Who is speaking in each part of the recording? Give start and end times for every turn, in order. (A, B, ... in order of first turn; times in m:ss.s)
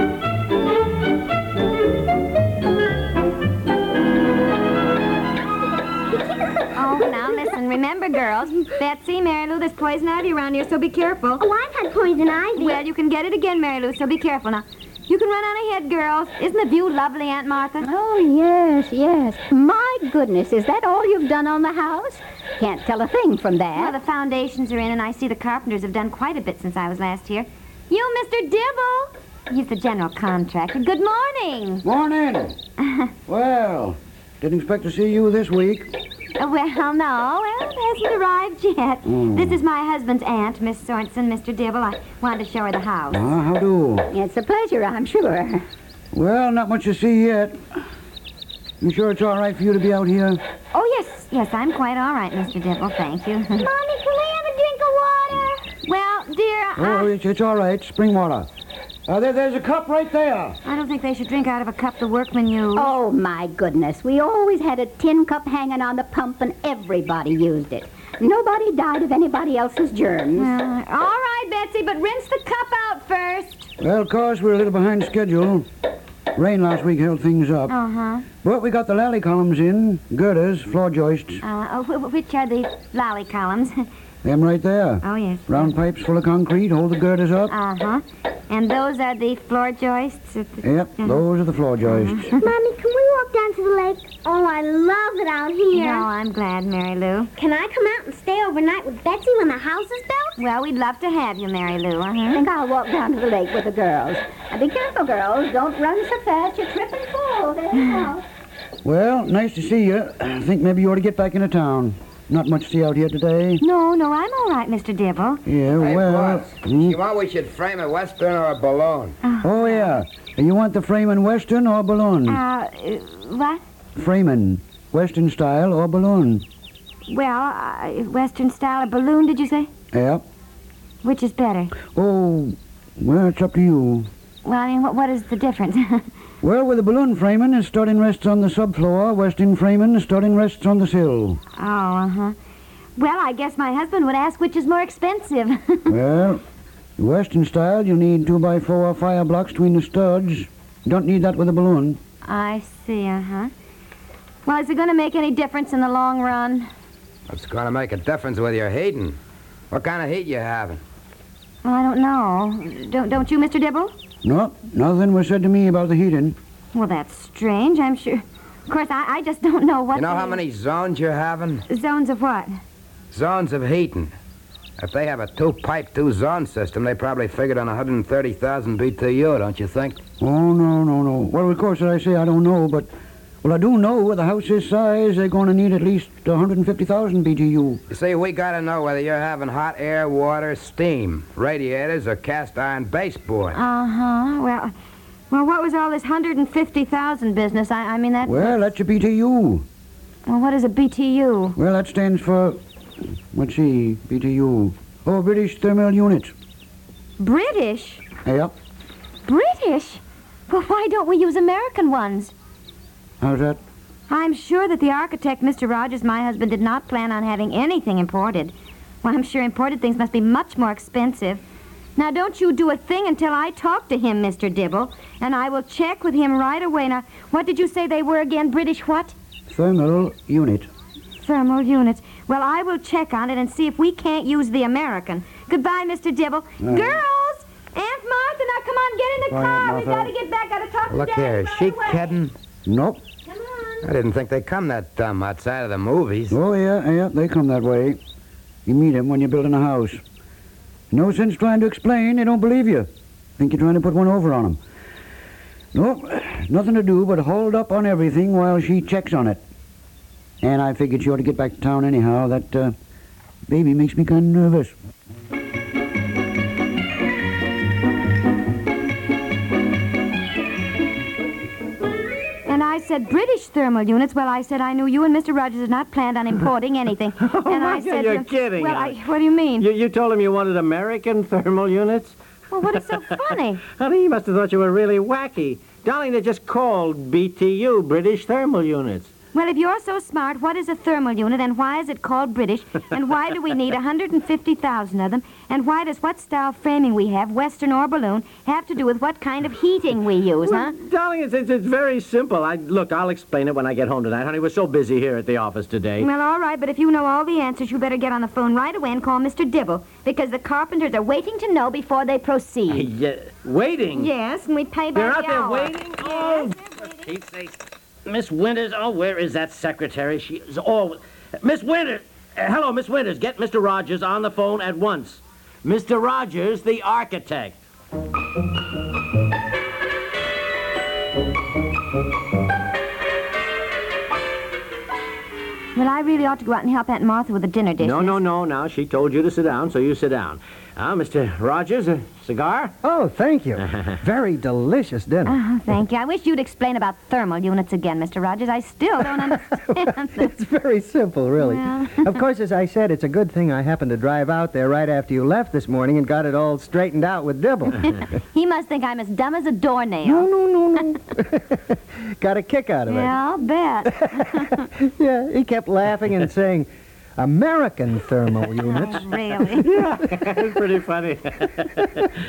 0:06.1-0:07.4 A
0:06.8-0:11.4 B
0:11.4-0:12.8 A
0:12.6-0:17.9 B
0:17.8-0:23.9 C
0:23.8-0:31.8 B
0:31.8-0:32.6 D
0:33.3-0:35.9 D
0:36.4-0:43.2 B
0:39.1-0:39.6 D
0:43.1-0:44.1 D
0:44.1-0:45.6 C
0:46.1-0:47.8 D
0:48.8-0:50.4 D
0:50.7-0:53.7 B
0:53.7-0:55.6 A
0:55.8-0:57.1 B
0:56.8-0:58.5 D
0:59.1-1:00.6 D
1:00.6-1:02.9 B
1:02.8-1:10.5 C
1:10.4-1:13.7 B
1:13.8-1:15.7 D
1:16.3-1:17.7 D
1:17.7-1:18.3 B
1:18.4-1:21.4 D
1:21.4-1:23.9 B
1:24.2-1:27.5 D
1:25.0-1:25.6 B
1:27.5-1:31.2 B
1:30.6-1:32.2 D
1:31.8-1:32.4 B
1:32.4-1:36.1 A
1:35.7-1:37.3 B
1:37.4-1:40.4 A
1:40.4-1:42.4 B
1:42.3-1:48.2 C
1:48.8-1:53.6 D
1:53.6-1:55.4 B
1:55.4-1:57.0 D
1:55.7-1:59.2 E
1:59.2-2:00.0 B
1:59.4-2:02.4 D
2:02.3-2:03.6 B
2:04.0-2:06.4 D
2:07.1-2:09.7 B
2:09.9-2:10.2 D
2:11.0-2:11.7 B
2:11.9-2:14.1 D
2:14.4-2:16.1 B
2:16.4-2:21.4 D
2:21.6-2:22.4 B
2:23.0-2:25.9 B
2:25.9-2:26.4 D
2:27.0-2:32.0 D
2:32.2-2:33.5 B
2:34.5-2:36.7 B
2:37.3-2:39.2 E
2:39.7-2:40.8 E
2:41.6-2:43.9 B
2:44.2-2:46.4 D
2:46.7-2:50.4 B
2:49.9-2:51.6 E
2:51.7-2:52.5 B
2:53.1-2:54.1 E
2:54.8-3:00.0 E
3:00.2-3:02.9 D
3:03.4-3:07.8 D
3:07.9-3:13.6 E
3:13.5-3:14.7 B
3:15.3-3:18.7 B
3:18.2-3:19.6 D
3:20.3-3:21.6 B
3:21.6-3:22.6 D
3:23.3-3:26.3 D
3:27.2-3:28.0 B
3:28.2-3:28.5 D
3:29.3-3:32.3 B
3:33.2-3:33.6 D
3:34.1-3:41.4 B
3:42.0-3:49.1 B
3:49.5-3:50.7 D
3:51.2-4:02.2 B
3:56.6-3:57.0 D
3:59.3-4:00.1 D
4:00.9-4:02.3 E
4:02.7-4:03.0 D
4:03.3-4:03.8 B
4:03.8-4:06.4 E
4:06.3-4:08.0 D
4:08.7-4:10.0 D
4:10.9-4:14.6 D
4:15.7-4:19.4 D
4:20.4-4:22.7 D
4:23.5-4:24.7 D
4:32.5-4:39.7 B
4:37.2-4:39.0 F
4:39.6-4:42.2 F
4:42.5-4:43.6 B
4:43.8-4:49.1 F
4:49.3-5:00.7 B
5:00.4-5:06.1 F
5:06.0-5:12.9 B
5:12.7-5:14.1 F
5:14.0-5:17.1 B
5:15.0-5:27.6 F
5:35.8-5:38.2 B
5:37.8-5:42.7 F
5:42.8-5:45.4 G
5:45.3-5:50.3 B
5:49.0-5:58.0 G
5:51.4-5:52.1 B
5:57.8-6:00.3 B
6:00.0-6:03.2 G
6:02.9-6:04.6 B
6:03.9-6:09.1 G
6:08.6-6:09.7 B
6:09.6-6:12.1 F